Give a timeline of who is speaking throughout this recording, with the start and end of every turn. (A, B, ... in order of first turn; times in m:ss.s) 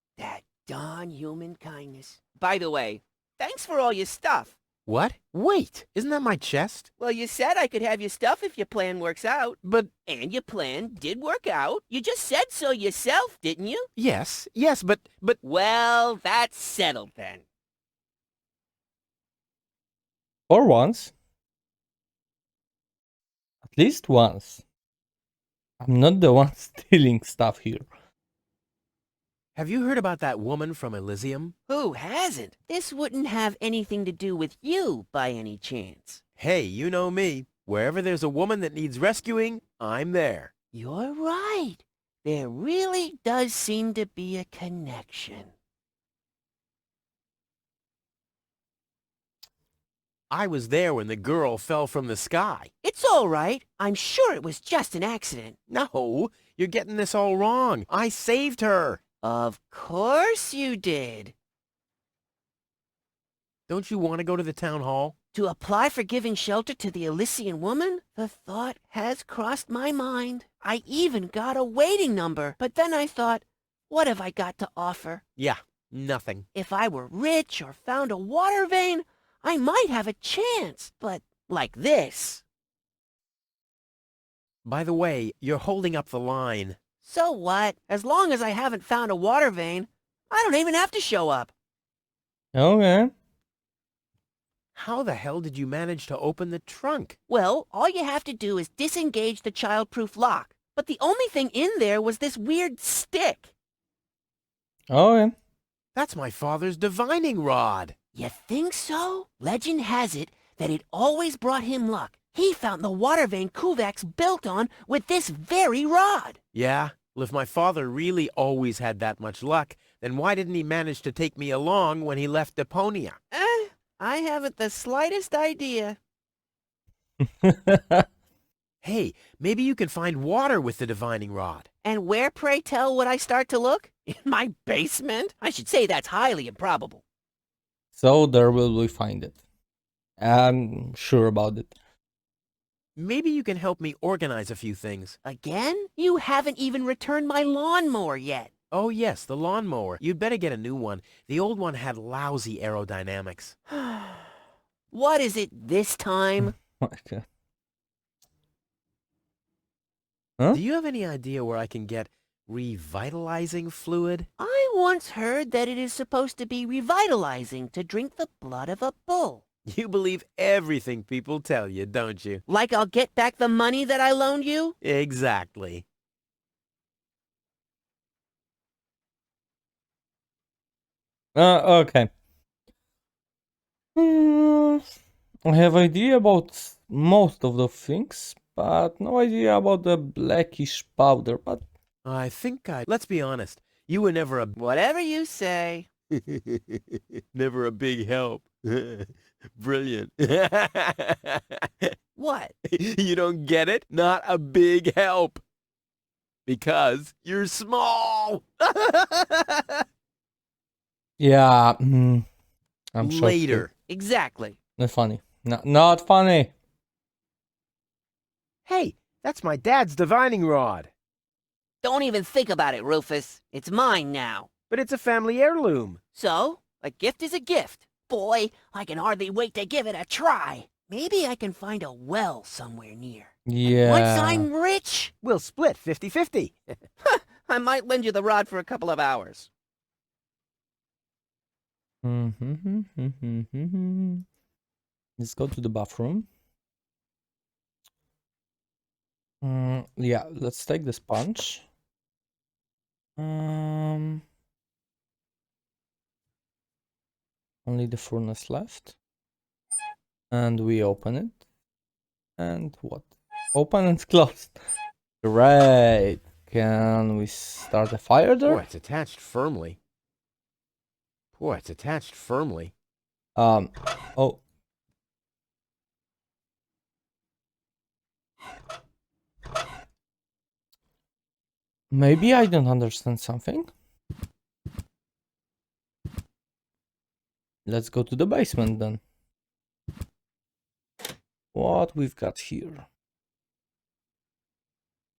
0:00.2-0:04.5 A
0:04.9-0:06.9 B
0:07.0-0:13.9 A
0:09.6-0:09.9 B
0:14.0-0:15.4 B
0:15.4-0:17.4 A
0:20.5-0:21.1 C
0:23.6-0:24.6 C
0:25.8-0:27.8 C
0:29.6-0:31.6 B
0:31.7-0:36.2 A
0:36.4-0:40.5 B
0:40.7-0:45.5 A
0:50.3-0:52.7 B
0:52.8-0:55.6 A
0:55.7-0:59.0 B
0:59.2-1:01.3 A
1:03.7-1:05.1 B
1:05.3-1:15.2 A
1:15.4-1:16.4 B
1:16.5-1:22.4 A
1:24.6-1:26.8 B
1:27.0-1:31.5 A
1:32.5-1:33.1 C
1:34.8-1:37.2 B
1:37.3-1:43.5 A
1:44.9-1:45.3 C
1:45.9-1:47.9 B
1:48.1-1:56.4 A
1:56.5-2:03.2 B
2:03.3-2:06.0 A
2:07.4-2:08.0 C
2:08.8-2:11.7 B
2:11.8-2:17.0 A
2:18.0-2:19.4 C
2:20.2-2:21.7 C
2:23.0-2:25.2 B
2:25.2-2:28.5 A
2:28.7-2:33.6 B
2:33.7-2:34.3 A
2:34.9-2:36.6 A
2:36.4-2:37.2 C
2:40.5-2:44.3 B
2:44.4-2:49.4 A
2:49.7-2:52.4 B
2:52.5-2:54.8 A
2:54.8-2:55.8 B
3:01.3-3:02.1 C
3:04.0-3:04.9 C
3:05.5-3:11.6 C
3:12.0-3:14.6 B
3:14.6-3:15.9 A
3:16.2-3:21.9 B
3:22.2-3:22.5 A
3:22.7-3:25.4 B
3:26.5-3:29.8 B
3:31.2-3:32.3 C
3:32.9-3:33.7 C
3:33.0-3:33.7 B
3:33.9-3:34.6 A
3:34.8-3:36.5 C
3:38.7-3:40.9 B
3:41.8-3:44.5 A
3:44.7-3:46.0 B
3:46.1-3:55.1 A
3:53.5-3:54.5 C
3:55.2-3:56.6 B
3:57.0-3:59.5 A
4:02.0-4:04.2 C
4:05.2-4:06.3 C
4:09.4-4:11.7 C
4:13.2-4:14.2 C
4:17.6-4:18.9 C
4:20.3-4:21.4 C
4:22.4-4:24.5 C
4:25.2-4:28.6 C
4:28.4-4:29.8 B
4:31.4-4:32.7 B
4:33.4-4:34.4 C
4:41.9-4:43.7 C
4:47.6-4:49.0 C
4:51.5-4:52.8 C